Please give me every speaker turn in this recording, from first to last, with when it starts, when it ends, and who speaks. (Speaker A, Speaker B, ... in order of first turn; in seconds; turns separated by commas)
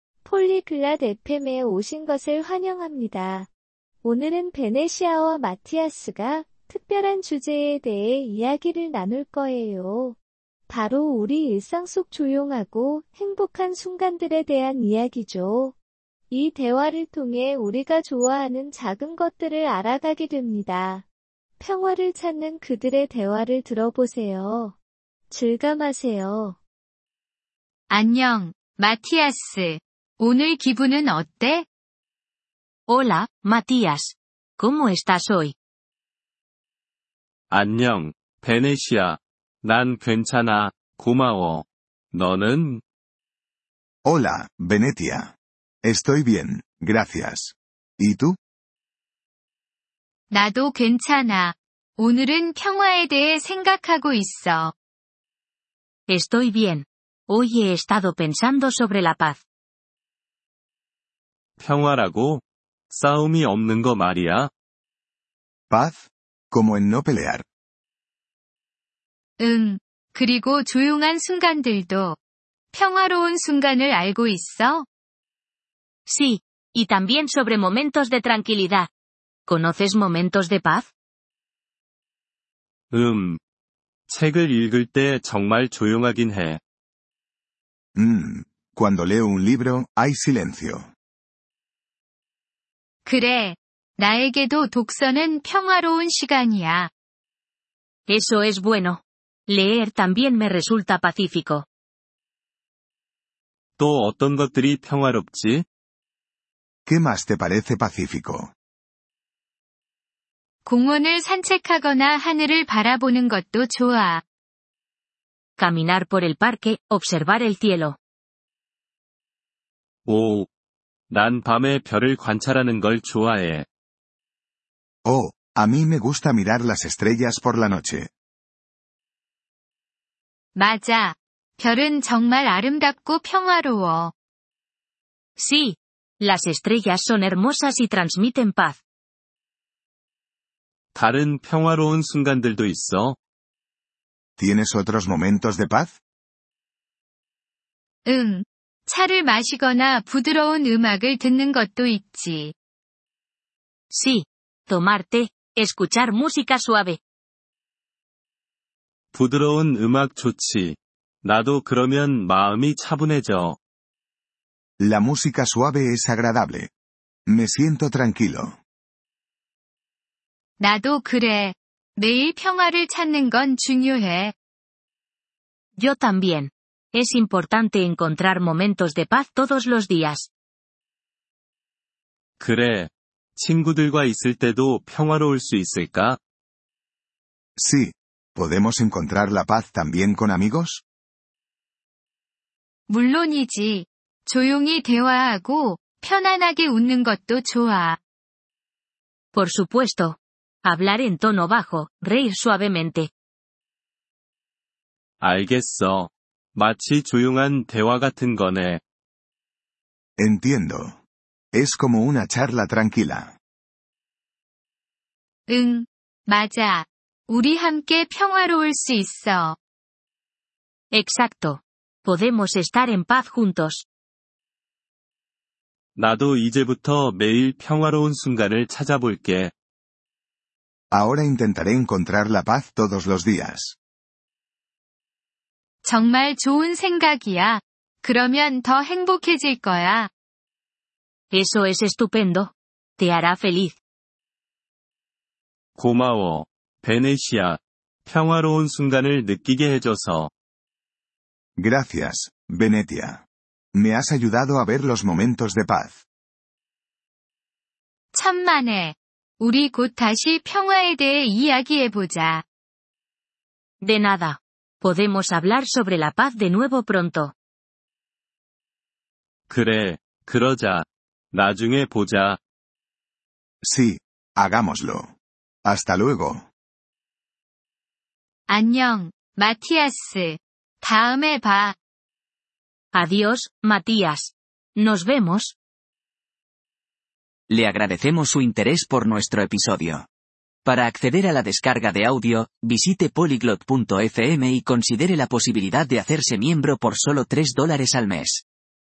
Speaker A: 0.2-3.5, Speaker A: 4.0-10.2, Speaker A: 10.7-15.7, Speaker A: 16.3-21.1, Speaker A: 21.6-24.8, Speaker A: 25.3-26.6, Speaker B: 27.9-31.6, Speaker C: 32.9-35.5, Speaker D: 37.5-42.8, Speaker E: 44.0-48.4, Speaker B: 50.3-54.7, Speaker C: 56.1-59.4, Speaker D: 61.6-64.5, Speaker E: 65.7-67.4, Speaker B: 69.4-72.2, Speaker B: 72.7-74.8, Speaker C: 76.0-78.9, Speaker C: 79.5-80.9, Speaker D: 82.9-83.4, Speaker D: 84.1-86.6, Speaker E: 87.9-90.9, Speaker B: 93.0-96.9, Speaker C: 98.1-101.7, Speaker D: 103.8-105.6, Speaker E: 106.8-108.5, Speaker B: 110.7-114.2, Speaker C: 115.6-118.0, Speaker D: 120.0-120.5, Speaker D: 121.1-123.7, Speaker E: 125.0-128.1, Speaker B: 130.5-134.1, Speaker C: 135.4-138.8, Speaker D: 140.9-143.2, Speaker E: 144.4-146.0, Speaker B: 148.0-152.5, Speaker C: 153.9-157.0, Speaker D: 159.1-163.6, Speaker E: 164.8-166.7, Speaker E: 167.2-168.6, Speaker B: 170.6-174.3, Speaker C: 175.8-180.3, Speaker D: 182.4-186.2, Speaker E: 187.6-190.8, Speaker B: 192.9-198.0, Speaker C: 199.3-203.1, Speaker D: 205.2-208.8, Speaker E: 210.2-211.0, Speaker E: 211.5-213.4, Speaker B: 215.5-219.6, Speaker C: 220.9-223.8, Speaker D: 225.9-229.5, Speaker E: 230.9-233.8, Speaker B: 235.8-240.1, Speaker C: 241.3-243.8, Speaker D: 245.8-250.3, Speaker E: 251.6-256.0, Speaker B: 258.1-262.4, Speaker C: 263.8-267.3, Speaker D: 269.5-272.4, Speaker E: 273.6-275.1, Speaker E: 275.6-276.5, Speaker B: 278.5-281.8, Speaker C: 282.9-285.6, Speaker F: 287.5-290.1, Speaker F: 290.6-298.4